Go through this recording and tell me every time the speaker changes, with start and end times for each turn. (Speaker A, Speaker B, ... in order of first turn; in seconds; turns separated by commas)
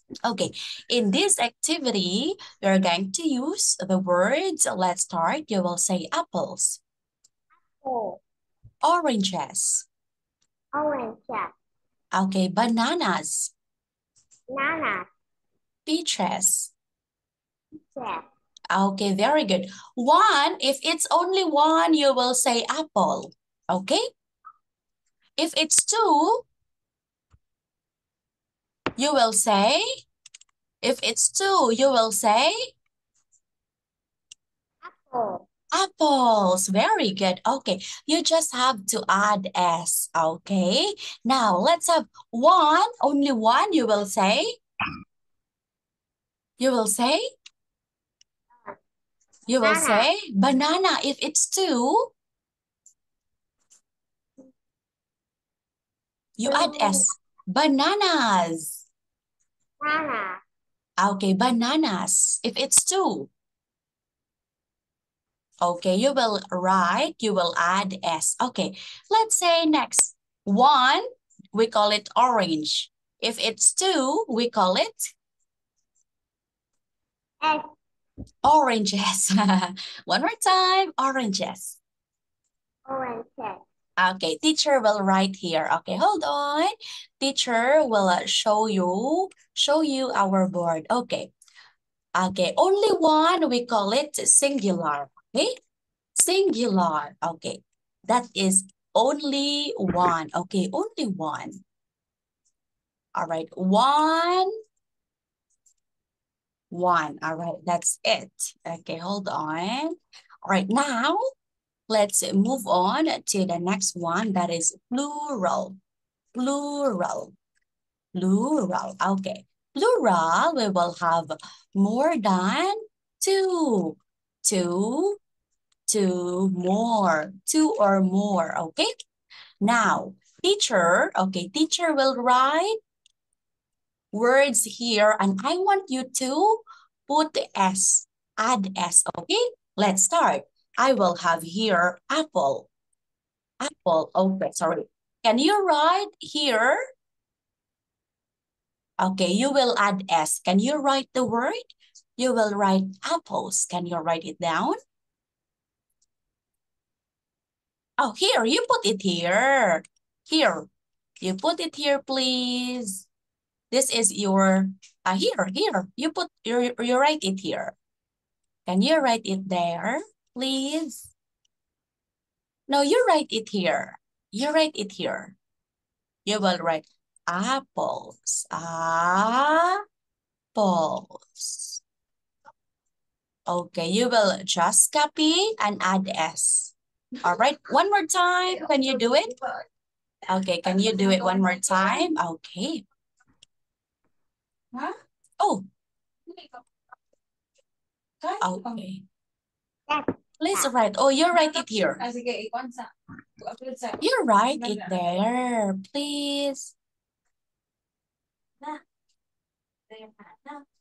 Speaker A: 0.2-6.8, Speaker B: 7.8-8.2, Speaker A: 8.8-9.8, Speaker B: 10.7-11.5, Speaker A: 12.1-13.5, Speaker B: 14.5-15.1, Speaker A: 15.8-16.7, Speaker B: 17.9-18.2, Speaker A: 18.7-24.0, Speaker A: 25.4-26.4, Speaker A: 29.0-29.8, Speaker A: 30.8-32.7, Speaker B: 34.8-35.5, Speaker A: 35.7-44.5, Speaker A: 46.6-47.2, Speaker A: 49.5-52.1, Speaker B: 49.6-50.1, Speaker A: 56.4-58.9, Speaker B: 56.5-57.0, Speaker B: 59.8-60.4, Speaker A: 61.0-63.3, Speaker A: 65.6-75.1, Speaker B: 77.4-77.7, Speaker A: 78.4-81.8, Speaker B: 82.9-83.6, Speaker A: 84.0-91.3, Speaker A: 92.2-95.5, Speaker A: 96.2-101.6, Speaker A: 103.1-104.5, Speaker A: 106.7-111.2, Speaker A: 111.9-115.8, Speaker A: 116.3-117.3, Speaker A: 118.1-125.2, Speaker A: 125.9-128.9, Speaker A: 129.6-132.8, Speaker A: 134.1-142.7, Speaker A: 143.6-146.8, Speaker A: 149.0-154.8, Speaker A: 158.0-160.7, Speaker A: 161.2-163.1, Speaker A: 163.7-167.7, Speaker A: 168.7-171.1, Speaker A: 172.7-175.3, Speaker A: 176.2-179.8, Speaker A: 180.5-181.8, Speaker A: 183.5-189.3, Speaker C: 188.5-189.4, Speaker A: 190.3-192.8, Speaker C: 190.6-192.1, Speaker A: 195.4-195.6, Speaker C: 196.3-196.6, Speaker C: 198.2-198.8, Speaker A: 198.4-199.0, Speaker B: 199.9-200.7, Speaker A: 200.4-202.0, Speaker C: 201.4-204.0, Speaker A: 204.0-206.7, Speaker C: 204.6-204.9, Speaker C: 209.9-210.6